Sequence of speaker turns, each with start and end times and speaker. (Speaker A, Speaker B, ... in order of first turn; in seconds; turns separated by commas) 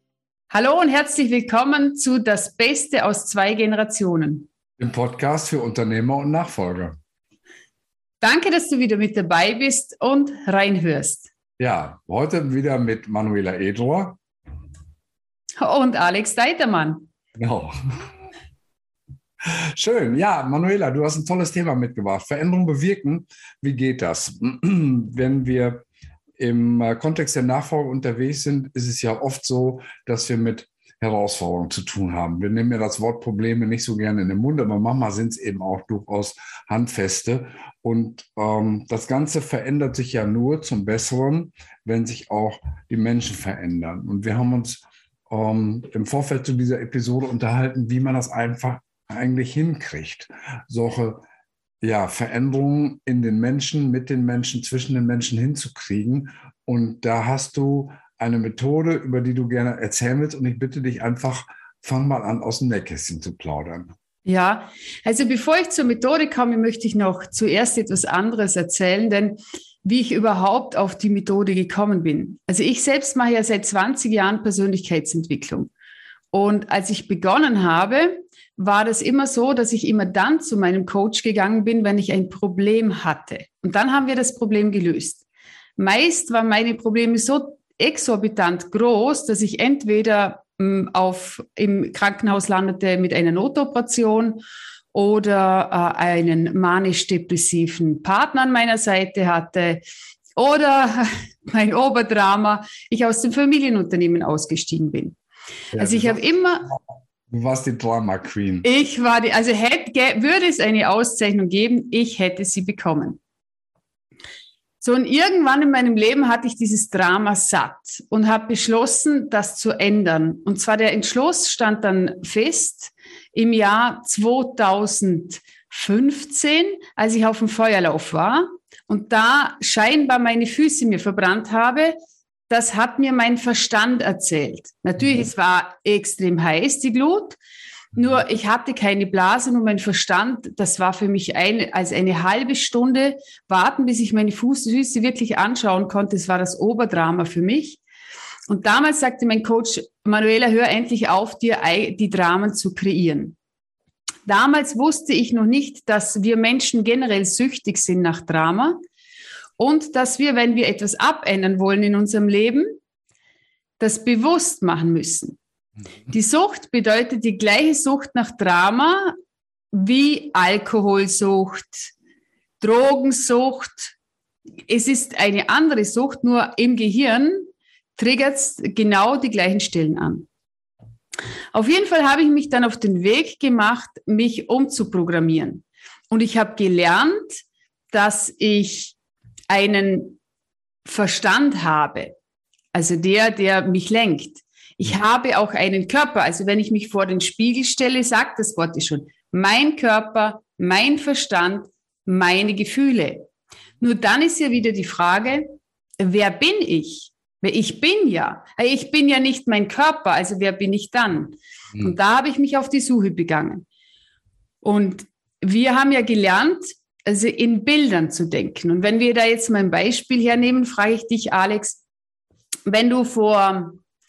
Speaker A: 0.5-4.5, Speaker B: 4.8-7.0, Speaker A: 8.2-11.3, Speaker B: 11.6-14.2, Speaker A: 15.6-17.1, Speaker B: 17.4-18.1, Speaker B: 19.4-25.8, Speaker B: 26.4-51.2, Speaker B: 51.8-63.9, Speaker A: 64.2-75.7, Speaker A: 76.3-85.2, Speaker A: 85.8-94.4, Speaker A: 94.9-99.8, Speaker A: 100.3-105.2, Speaker B: 105.7-108.7, Speaker A: 105.8-106.7, Speaker A: 108.6-113.2, Speaker A: 114.8-132.0, Speaker A: 132.5-137.4, Speaker B: 135.0-135.3, Speaker A: 137.9-147.8, Speaker A: 148.5-153.3, Speaker A: 154.2-158.8, Speaker A: 159.6-162.8, Speaker A: 163.8-165.4, Speaker A: 166.1-169.2, Speaker A: 169.7-171.9, Speaker A: 172.6-173.9, Speaker A: 174.7-180.3, Speaker A: 181.5-188.9, Speaker A: 189.5-190.2, Speaker A: 190.8-192.1, Speaker A: 192.7-203.3, Speaker A: 203.8-213.6, Speaker A: 214.6-221.8, Speaker A: 222.7-223.8